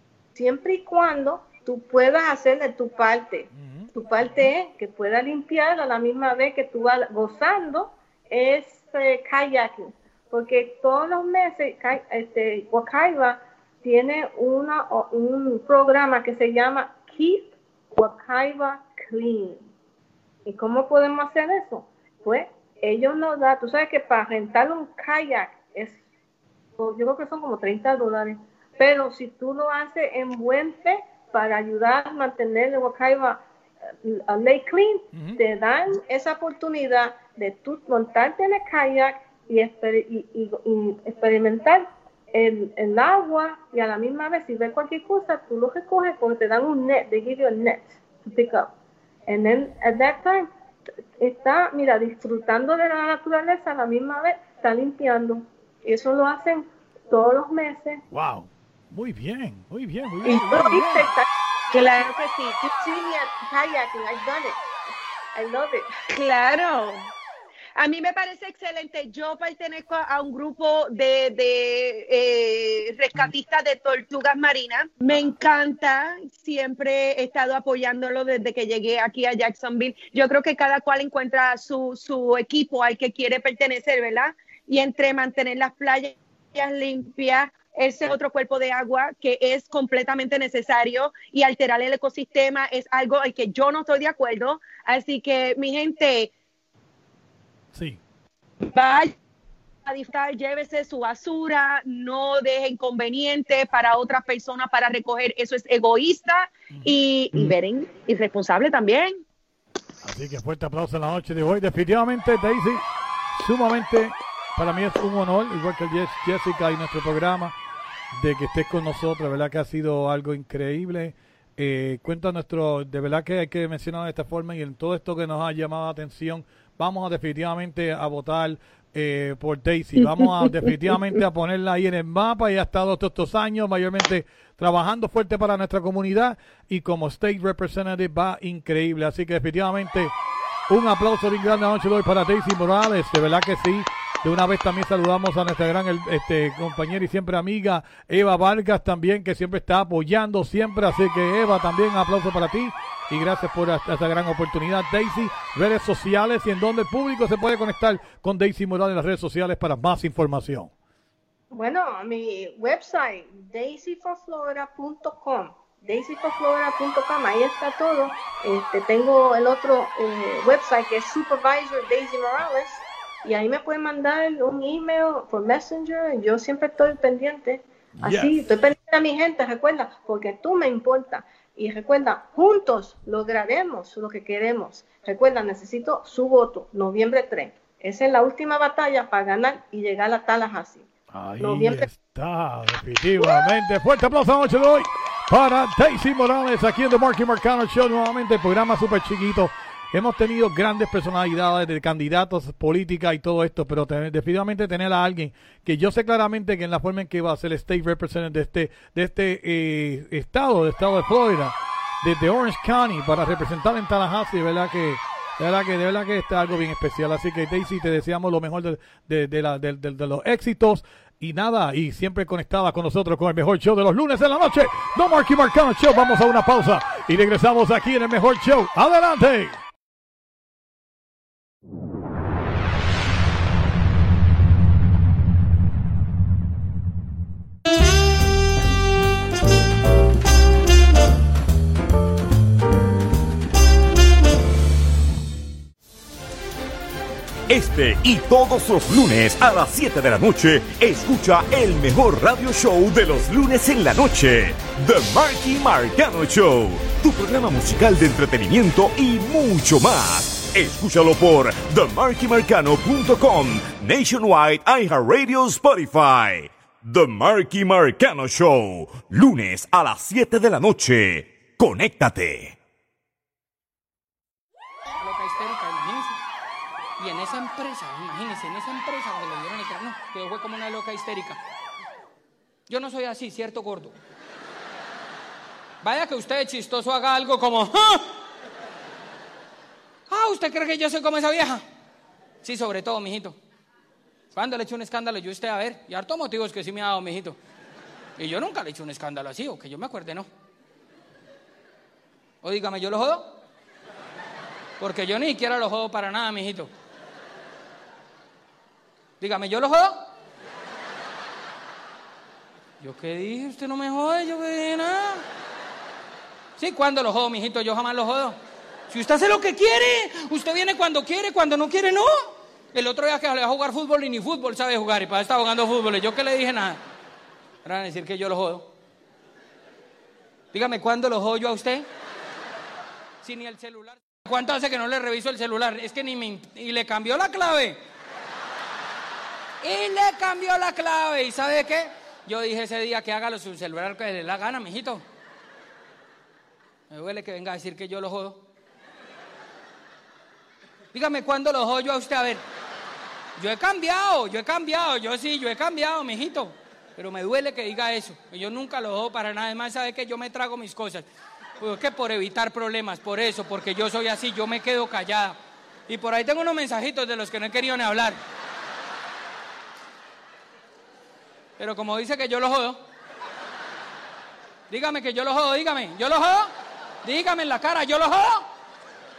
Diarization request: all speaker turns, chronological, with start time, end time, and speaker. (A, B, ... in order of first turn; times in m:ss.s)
0:00.4-0:19.7 A
0:03.5-0:04.4 B
0:20.4-0:26.0 A
0:26.8-0:33.4 A
0:34.0-0:48.7 A
0:35.1-0:35.4 B
0:49.3-0:50.5 A
0:51.2-0:58.0 A
0:58.1-1:01.1 B
1:00.3-1:01.3 A
1:01.7-1:02.6 C
1:02.6-1:04.6 A
1:05.3-1:05.9 A
1:06.1-1:07.1 C
1:07.8-1:36.3 C
1:37.7-1:38.0 B
1:38.7-1:39.1 C
1:39.9-1:49.2 C
1:46.7-1:47.6 B
1:50.0-1:57.5 B
1:58.1-2:20.1 B
2:20.7-2:40.7 B
2:41.5-3:10.9 A
2:58.0-2:58.5 B
3:11.1-3:49.6 B
3:11.4-3:11.9 A
4:07.5-4:32.6 D
4:35.0-4:36.2 E
4:37.0-4:41.4 E
4:42.7-4:43.9 E
4:45.8-4:48.0 E
4:50.1-4:51.6 E
4:52.4-4:53.4 E
4:54.3-4:57.4 E
4:58.2-5:00.3 E
5:02.4-5:03.3 E
5:04.8-5:06.7 E
5:09.2-5:10.0 E
5:12.8-5:15.2 E
5:16.6-5:18.4 E
5:18.9-5:26.8 E
5:27.6-5:28.7 E
5:30.5-5:31.9 E
5:33.2-5:37.8 E
5:39.6-5:45.0 E
5:46.9-5:48.4 E
5:50.9-5:52.4 E
5:53.4-6:01.1 E
6:01.6-6:05.4 E
6:05.9-6:08.2 E
6:11.6-6:12.8 E
6:14.7-6:16.5 E
6:17.0-6:18.4 E